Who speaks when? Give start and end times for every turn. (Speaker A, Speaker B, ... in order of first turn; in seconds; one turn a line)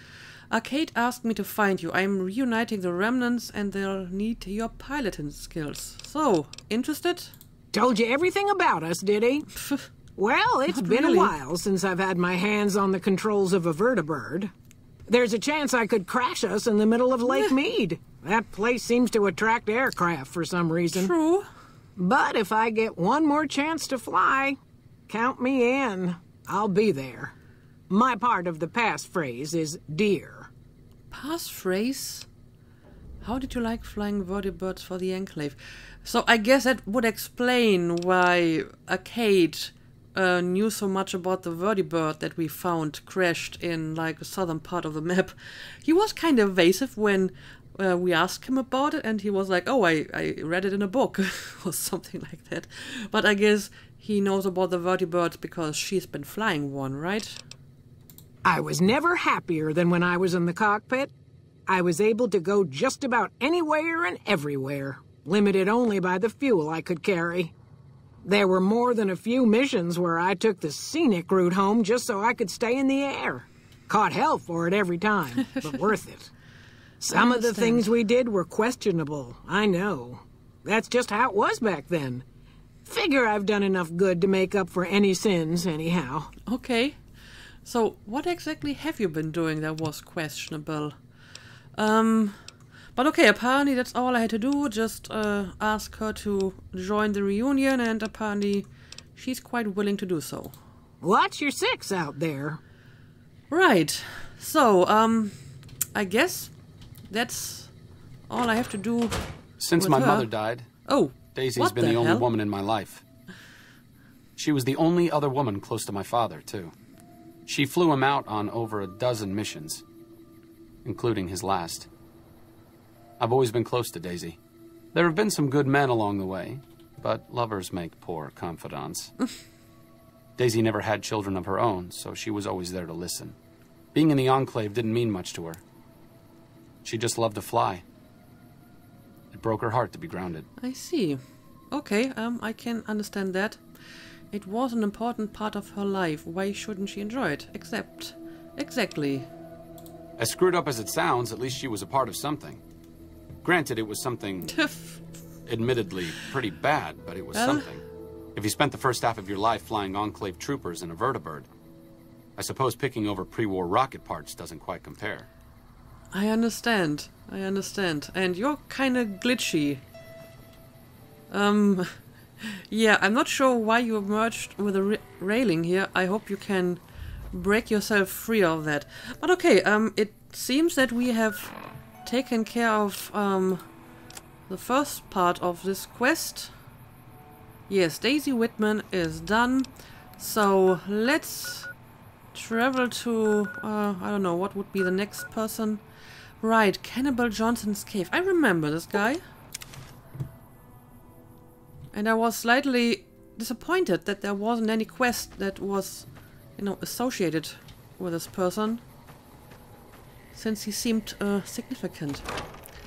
Speaker A: 0.5-7.3
Speaker B: 7.7-9.5
Speaker B: 10.2-14.5
Speaker A: 10.7-11.3
Speaker B: 15.1-21.1
Speaker A: 20.9-21.5
Speaker B: 21.9-24.6
Speaker B: 25.1-27.3
Speaker B: 27.9-30.5
Speaker A: 31.1-32.3
Speaker A: 33.2-57.4
Speaker B: 58.4-61.1
Speaker B: 61.7-67.5
Speaker B: 68.2-76.3
Speaker B: 77.0-82.2
Speaker A: 77.1-77.9
Speaker B: 82.8-86.3
Speaker A: 86.5-87.0
Speaker A: 87.6-91.0
Speaker A: 91.8-92.3
Speaker A: 93.0-100.5
Speaker B: 101.0-102.6
Speaker A: 103.5-105.3
Speaker A: 105.9-106.5
Speaker A: 107.1-107.7
Speaker A: 108.3-109.2
Speaker C: 109.6-110.7
Speaker A: 109.8-110.3
Speaker A: 110.9-112.3
Speaker C: 111.3-113.0
Speaker C: 114.4-116.7
Speaker C: 117.5-119.8
Speaker C: 120.8-121.9
Speaker C: 123.2-124.4
Speaker C: 124.9-129.1
Speaker C: 130.4-133.3
Speaker C: 133.9-135.6
Speaker C: 136.8-137.8
Speaker C: 139.3-140.5
Speaker A: 140.6-141.2
Speaker A: 141.7-143.6
Speaker A: 144.3-149.3
Speaker C: 150.2-152.6
Speaker C: 153.4-154.6
Speaker A: 154.5-154.9
Speaker C: 155.5-157.8
Speaker A: 157.3-157.6
Speaker C: 158.3-161.5
Speaker C: 162.4-165.3
Speaker A: 166.1-169.8
Speaker A: 171.3-176.8
Speaker A: 177.3-181.5
Speaker A: 182.0-183.6
Speaker A: 184.5-186.5
Speaker A: 187.7-191.7
Speaker A: 192.3-195.8
Speaker A: 196.4-199.2
Speaker A: 201.9-208.8
Speaker A: 210.3-212.2